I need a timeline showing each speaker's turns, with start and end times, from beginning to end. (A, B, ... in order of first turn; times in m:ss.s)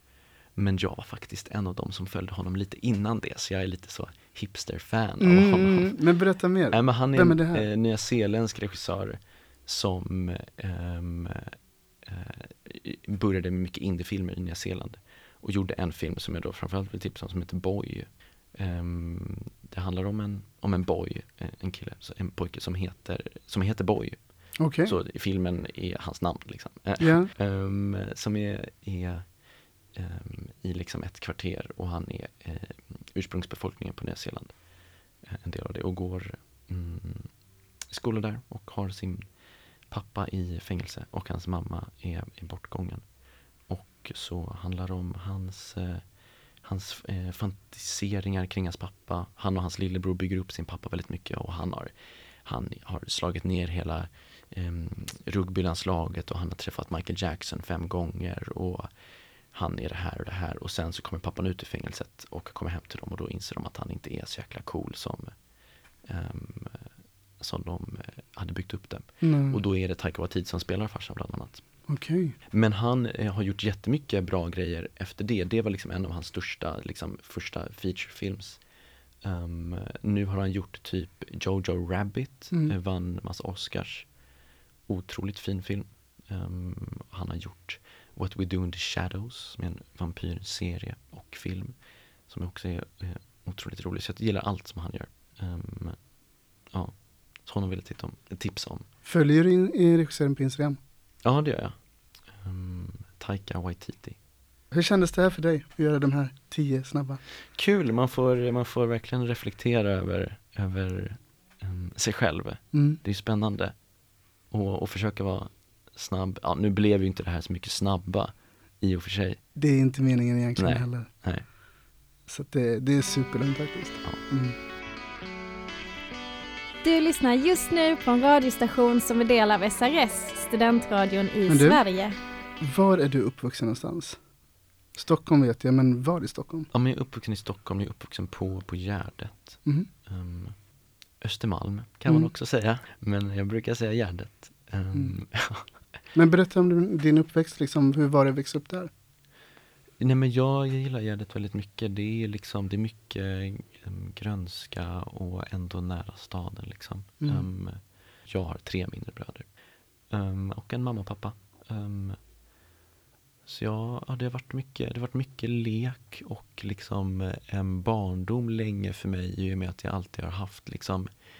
0:00.6-0:06.0 A
0:05.2-0:07.6 B
0:06.7-0:29.3 A
0:24.6-0:25.0 B
0:27.0-0:27.3 B
0:29.9-0:34.6 A
0:35.2-0:37.3 A
0:37.9-0:39.3 A
0:39.9-0:43.0 A
0:43.7-0:46.0 A
0:46.6-0:58.9 A
0:59.5-1:05.4 A
1:06.0-1:11.6 A
1:09.2-1:09.6 B
1:11.9-1:12.4 B
1:12.5-1:18.6 A
1:19.2-1:24.1 A
1:24.9-1:31.8 A
1:32.3-1:36.0 A
1:36.7-1:38.8 A
1:39.0-1:40.8 B
1:41.2-1:41.8 A
1:42.3-1:44.2 A
1:44.7-1:47.2 B
1:47.5-1:53.7 A
1:52.7-1:53.0 B
1:54.5-1:59.4 A
1:59.6-2:01.1 B
2:00.6-2:01.4 A
2:02.3-2:04.6 B
2:06.8-2:12.2 C
2:11.5-2:11.8 B
2:12.6-2:14.2 B
2:15.0-2:16.7 B
2:16.7-2:20.5 A
2:21.2-2:25.7 A
2:26.1-2:28.9 B
2:30.0-2:39.5 A
2:37.2-2:37.5 B
2:40.1-2:42.2 A
2:43.4-2:51.1 A